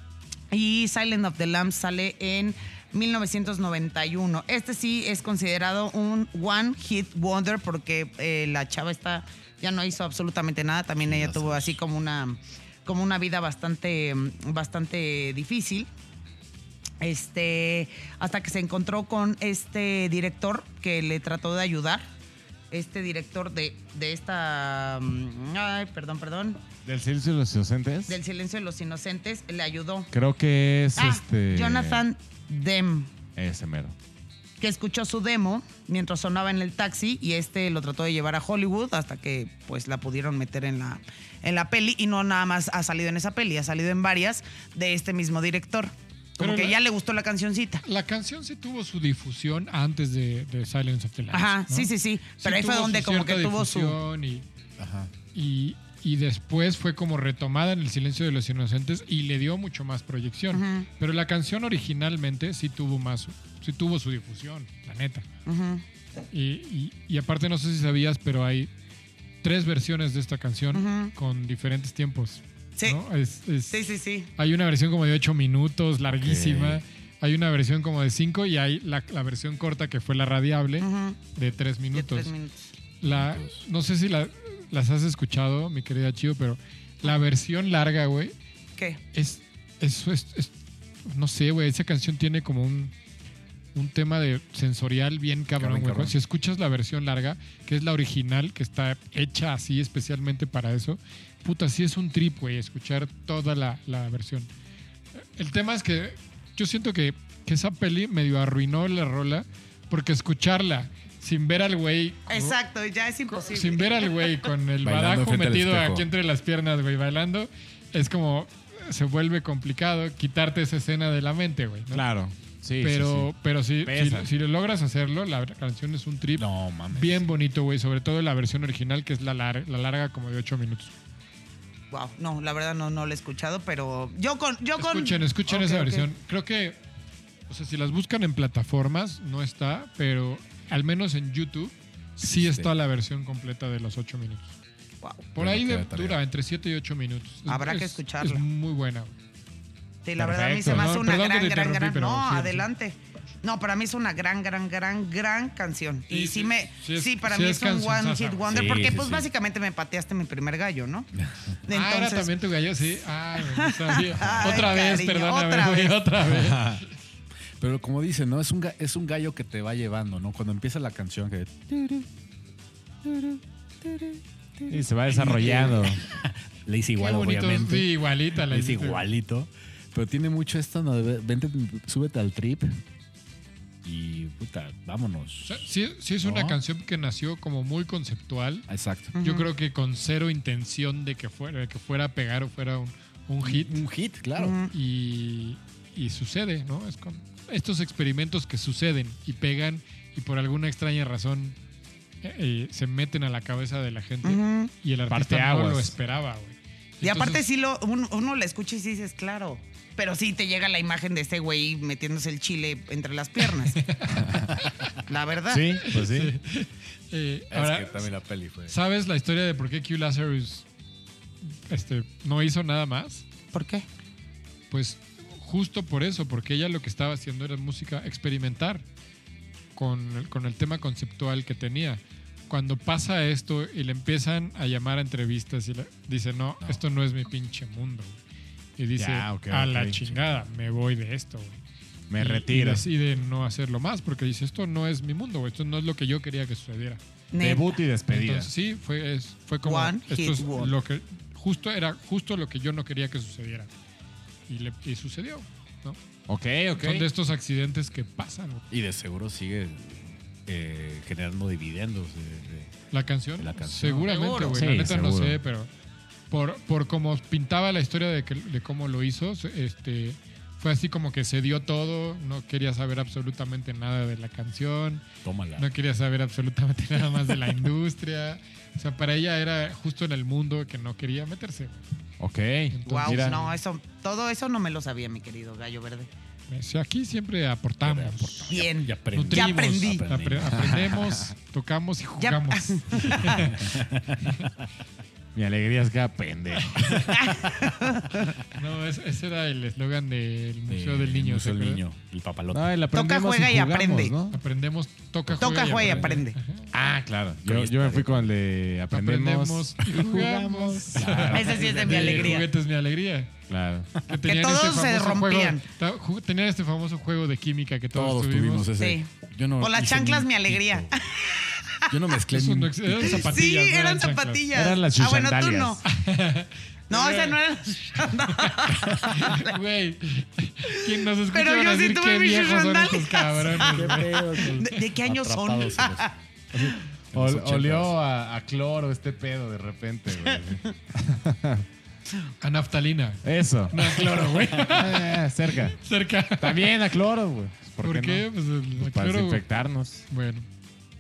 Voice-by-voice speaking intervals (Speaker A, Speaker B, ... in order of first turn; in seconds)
Speaker A: 0.5-15.9, 17.0-22.1, 22.7-26.6, 28.1-30.1, 31.0-33.1, 34.6-47.8, 51.3-54.0, 60.5-60.9, 65.5-65.8, 70.7-71.1, 73.7-74.3, 80.8-81.2, 81.9-82.7, 88.8-89.0, 112.3-114.3, 131.9-136.1, 147.5-148.4, 150.0-161.1, 161.7-162.3, 163.4-165.9, 189.2-189.5, 194.4-194.7, 204.2-204.7, 207.0-213.8, 215.1-215.7, 223.5-223.9, 247.3-247.8, 249.6-250.7, 264.1-264.7, 282.9-286.1, 288.5-290.0, 292.2-293.5, 297.2-298.3, 302.9-304.1, 305.4-306.4, 311.3-312.5, 314.2-315.6, 318.8-319.1, 319.6-321.8, 323.0-325.8, 326.9-329.5, 331.3-334.0, 334.6-336.7
Speaker B: 11.0-11.8, 54.8-55.1, 76.1-76.8, 83.0-83.7, 95.6-96.1, 114.8-116.1, 126.4-127.2, 142.2-142.7, 145.4-146.2, 158.5-159.3, 161.2-161.6, 164.2-164.8, 166.2-166.8, 167.6-172.1, 173.1-182.8, 183.8-185.6, 186.2-186.6, 188.7-189.1, 193.4-194.6, 217.5-218.8, 258.7-262.7, 263.4-264.2, 275.2-275.7, 287.8-291.2, 293.4-294.2, 300.7-302.7, 305.3-306.1, 307.5-308.3, 310.9-312.4, 317.9-320.9, 321.9-323.3, 333.6-337.9
Speaker C: 26.9-28.2, 30.1-32.0, 33.4-34.0, 121.9-123.3, 123.8-124.3, 150.2-150.9, 174.7-176.0, 205.1-205.9, 215.5-216.3, 239.0-240.2, 242.1-242.8, 247.4-248.5, 256.3-257.1, 264.5-265.4, 282.2-283.4, 295.4-297.3, 302.5-304.4, 306.7-311.8, 313.5-313.9, 324.5-325.8, 337.1-341.7, 343.2-344.1, 344.7-345.8, 346.4-350.1
Speaker D: 46.4-46.8, 47.8-54.5, 55.3-65.3, 66.3-68.7, 69.4-82.3, 83.0-88.3, 89.1-90.5, 91.0-92.9, 93.8-104.5, 105.2-112.6, 113.3-122.0, 122.8-130.9, 134.8-136.8, 137.5-144.5, 145.3-149.1, 150.7-152.7, 156.1-158.7, 161.7-166.8, 177.0-179.1, 185.4-188.7, 189.2-193.8, 194.7-201.6, 202.2-207.4, 213.8-214.9, 215.8-218.1, 218.7-220.7, 221.7-223.2, 224.7-228.8, 229.8-238.2, 238.8-241.6, 242.2-247.0, 248.1-253.7, 254.5-256.0, 256.8-258.6, 262.9-265.7, 266.3-275.0, 275.6-281.8, 282.7-283.6, 286.5-288.6, 289.1-293.8, 298.5-301.8, 304.3-306.7, 308.9-313.3, 314.1-318.7, 322.3-324.5, 325.9-327.4, 328.0-334.7, 342.4-346.7, 347.8-349.4, 350.1-350.5